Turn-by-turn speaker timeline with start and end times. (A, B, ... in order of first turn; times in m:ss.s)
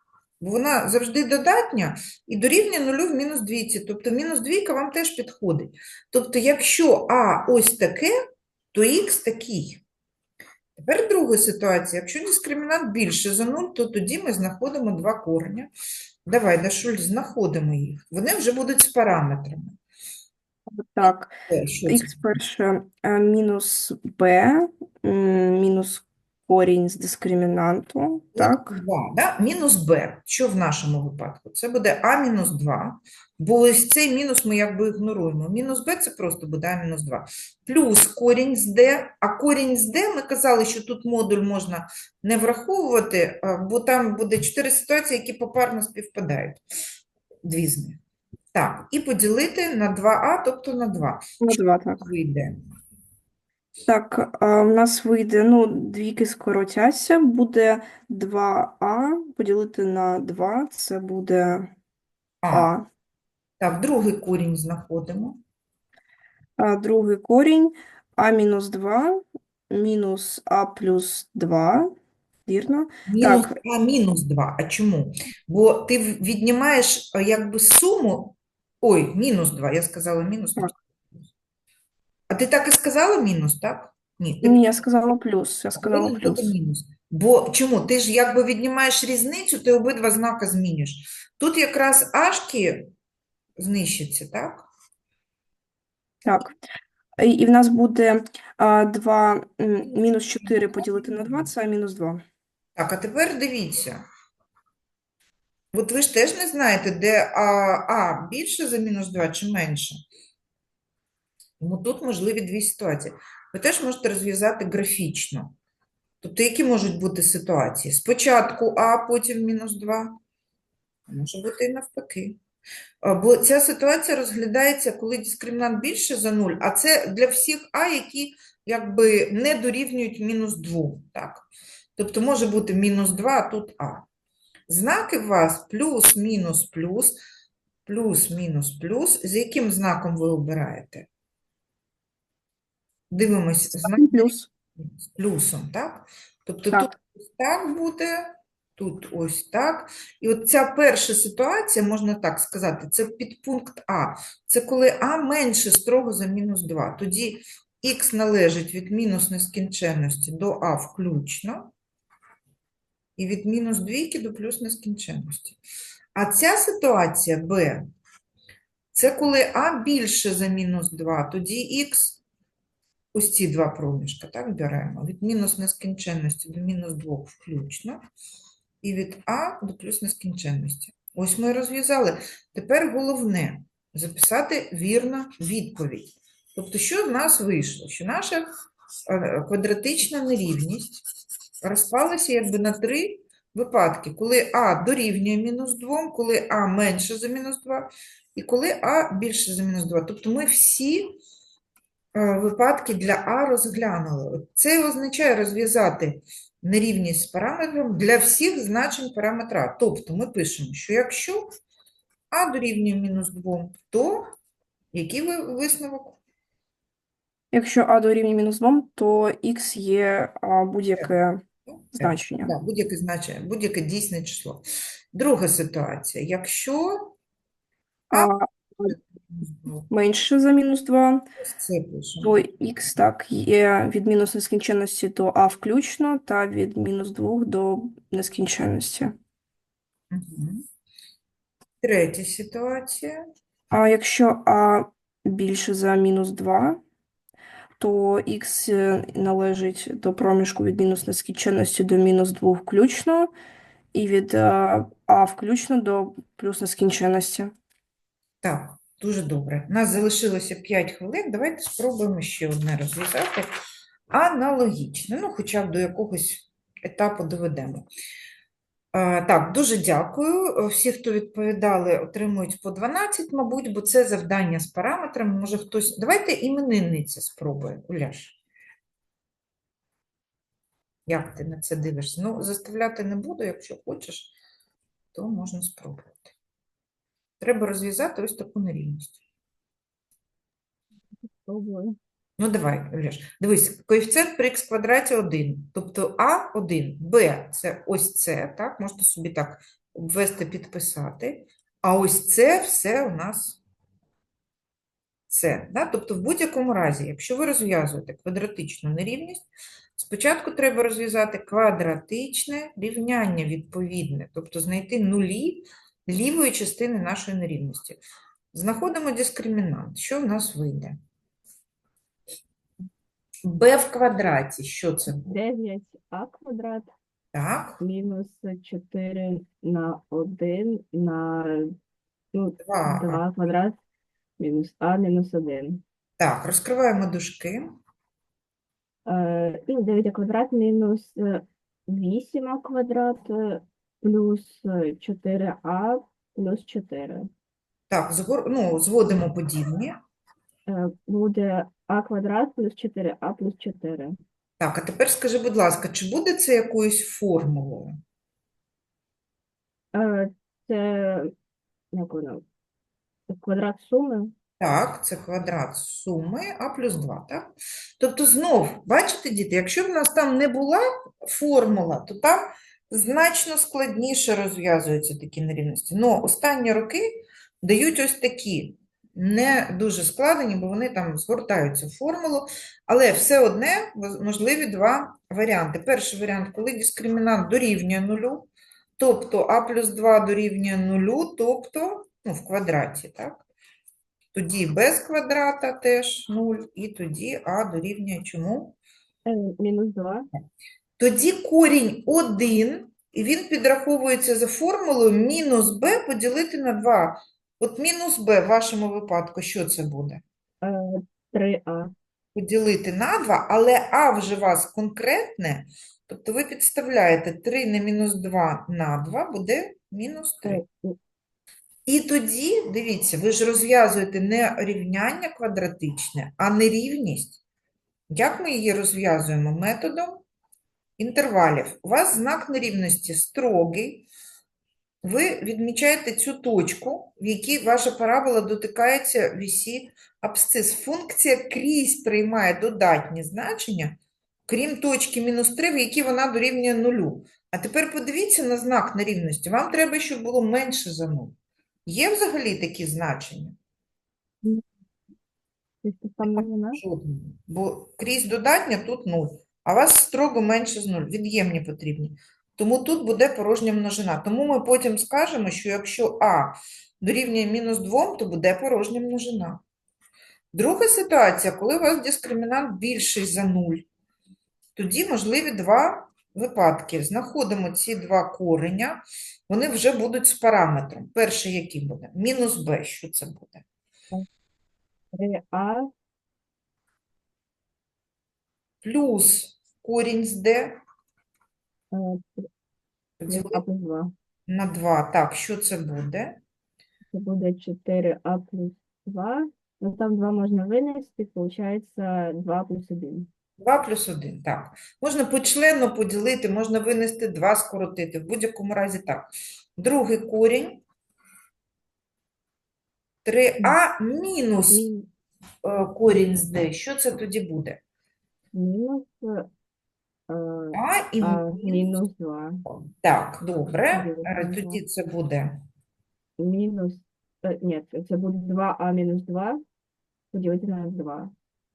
0:00.4-0:08.1 A
0:08.7-0:09.8 A
0:10.8-0:15.7 A
0:16.2-0:19.8 A
0:20.7-0:21.3 B
0:21.5-0:22.4 A
0:21.9-0:28.8 B
0:28.3-0:46.6 A
0:47.4-0:48.0 A
0:48.5-0:52.6 A
0:51.4-0:52.0 B
0:53.9-1:01.7 B
1:02.4-1:02.7 A
1:02.5-1:02.9 B
1:03.6-1:05.4 A
1:06.6-1:11.9 B
1:12.4-1:13.5 B
1:13.1-1:20.8 A
1:22.3-1:24.6 A
1:24.4-1:26.5 B
1:25.8-1:32.9 A
1:33.6-1:34.7 A
1:36.2-1:36.5 B
1:37.2-1:42.2 B
1:42.8-1:44.0 A
1:45.7-1:50.0 A
1:51.6-1:55.5 A
1:56.2-2:00.2 A
2:01.1-2:02.4 A
2:03.0-2:11.4 A
2:12.0-2:14.0 A
2:14.7-2:17.1 A
2:17.8-2:21.1 A
2:23.1-2:41.7 A
2:23.8-2:24.5 B
2:43.2-2:45.6 A
2:46.1-2:47.8 A
2:48.9-2:52.2 A
2:53.1-2:58.0 A
2:58.8-3:08.5 A
3:09.1-3:11.0 A
3:11.6-3:21.1 A
3:22.1-3:31.5 A
3:32.3-3:34.3 A
3:34.9-3:36.2 A
3:37.5-3:41.4 B
3:41.7-3:47.1 A
3:42.0-3:42.5 B
3:48.1-3:48.9 B
3:48.1-3:49.9 A
3:49.9-3:51.2 B
3:51.4-3:52.4 A
3:52.2-3:59.1 B
4:00.1-4:00.6 A
4:01.8-4:03.2 A
4:03.7-4:06.8 B
4:07.8-4:13.3 B
4:13.9-4:17.5 B
4:18.4-4:23.5 A
4:24.1-4:27.8 A
4:28.9-4:38.4 A
4:41.1-4:44.3 A
4:45.1-4:46.3 A
4:47.4-4:49.2 A
4:51.3-4:52.0 C
4:52.4-5:03.6 A
5:05.3-5:18.0 A
5:18.5-5:21.0 A
5:23.4-5:25.4 A
5:25.2-5:26.9 C
5:27.3-5:27.8 A
5:27.8-5:31.7 C
5:32.3-5:33.7 C
5:32.6-5:33.2 A
5:34.4-5:35.8 C
5:36.2-5:37.7 A
5:39.0-5:47.3 C
5:47.9-5:50.0 A
5:50.7-5:54.2 C
5:54.6-5:58.0 A
5:59.9-6:01.3 C
6:01.9-6:02.4 C
6:03.3-6:04.3 C
6:04.6-6:33.4 A
6:34.3-6:38.8 A
6:39.2-6:40.3 C
6:41.0-6:50.2 A
6:50.6-6:51.9 C
6:52.3-7:00.6 A
7:00.4-7:01.0 C
7:01.8-7:07.4 A
7:08.1-7:10.2 A
7:11.0-7:14.1 A
7:15.0-7:31.3 A
7:31.8-7:33.6 A
7:35.8-7:36.8 C
7:36.2-7:49.6 A
7:50.5-7:53.8 A
7:54.8-8:03.6 A
8:05.1-8:05.9 C
8:08.8-8:10.8 A
8:11.9-8:12.5 C
8:13.2-8:13.6 A
8:13.3-8:14.1 C
8:14.5-8:16.4 A
8:17.1-8:23.3 C
8:23.6-8:30.8 A
8:33.2-8:34.9 A
8:34.7-8:35.1 C
8:35.6-8:37.8 A
8:38.5-8:39.5 C
8:40.3-8:42.6 C
8:40.7-8:42.0 A
8:42.9-8:45.6 A
8:43.9-8:44.8 C
8:46.4-8:49.6 C
8:50.3-8:51.3 C